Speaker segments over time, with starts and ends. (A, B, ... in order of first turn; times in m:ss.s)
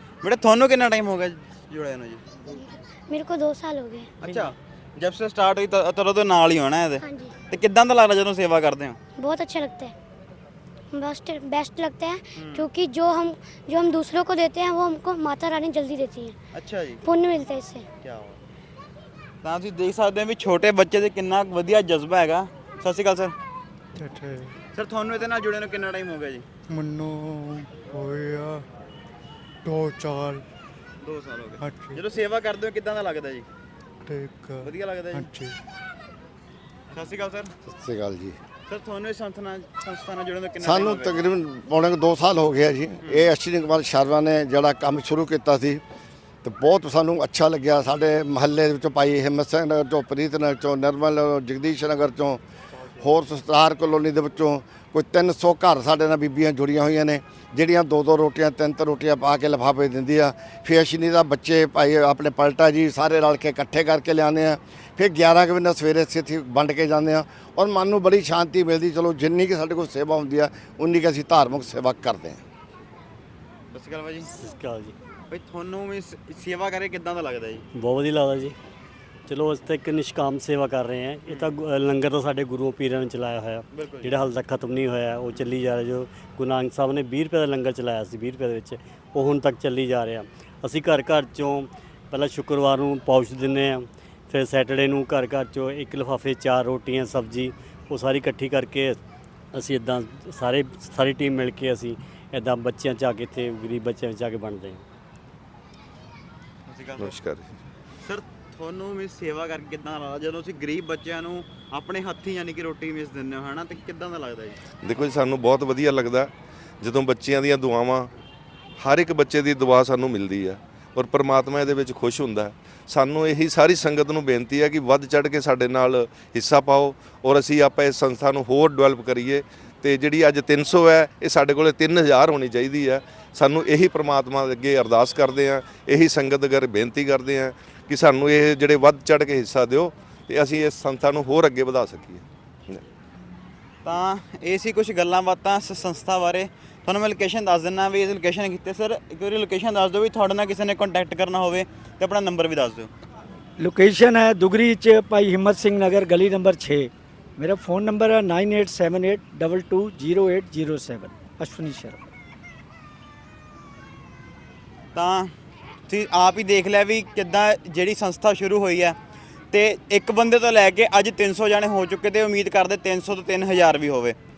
0:00.2-0:02.5 A
0:02.5-0:04.1 B
0:04.2-0:09.0 A
0:07.0-0:07.3 B
0:09.2-0:09.9 B
0:10.9-0:16.4 B
0:12.4-0:12.6 A
0:16.5-0:17.0 A
0:17.0-0:17.9 B
0:18.0-0:18.4 A
0:19.4-0:23.3 A
0:23.9-0:24.6 C
0:24.8-0:26.4 A
0:26.7-0:28.6 C
0:29.6-0:30.4 C
0:31.0-0:33.4 A
0:31.6-0:32.0 C
0:34.0-0:35.6 C
0:34.6-0:35.3 A
0:36.9-0:37.5 A
0:37.6-0:38.4 D
0:38.7-0:41.2 A
0:40.6-0:45.8 D
0:43.0-0:43.3 A
0:46.4-0:52.4 D
0:53.0-1:12.4 D
1:13.7-1:14.3 A
1:14.2-1:15.0 E
1:15.3-1:17.6 A
1:17.7-1:18.6 E
1:19.3-1:39.0 E
1:21.3-1:21.6 A
1:23.7-1:24.2 A
1:39.5-1:44.8 E
1:46.7-1:47.1 A
1:47.0-1:47.5 F
1:48.0-1:54.6 A
1:54.8-1:58.1 F
1:58.8-2:22.8 F
2:23.8-2:32.9 A
2:33.6-2:42.0 G
2:44.9-2:45.3 A
2:45.9-2:49.0 A
2:49.5-2:54.2 A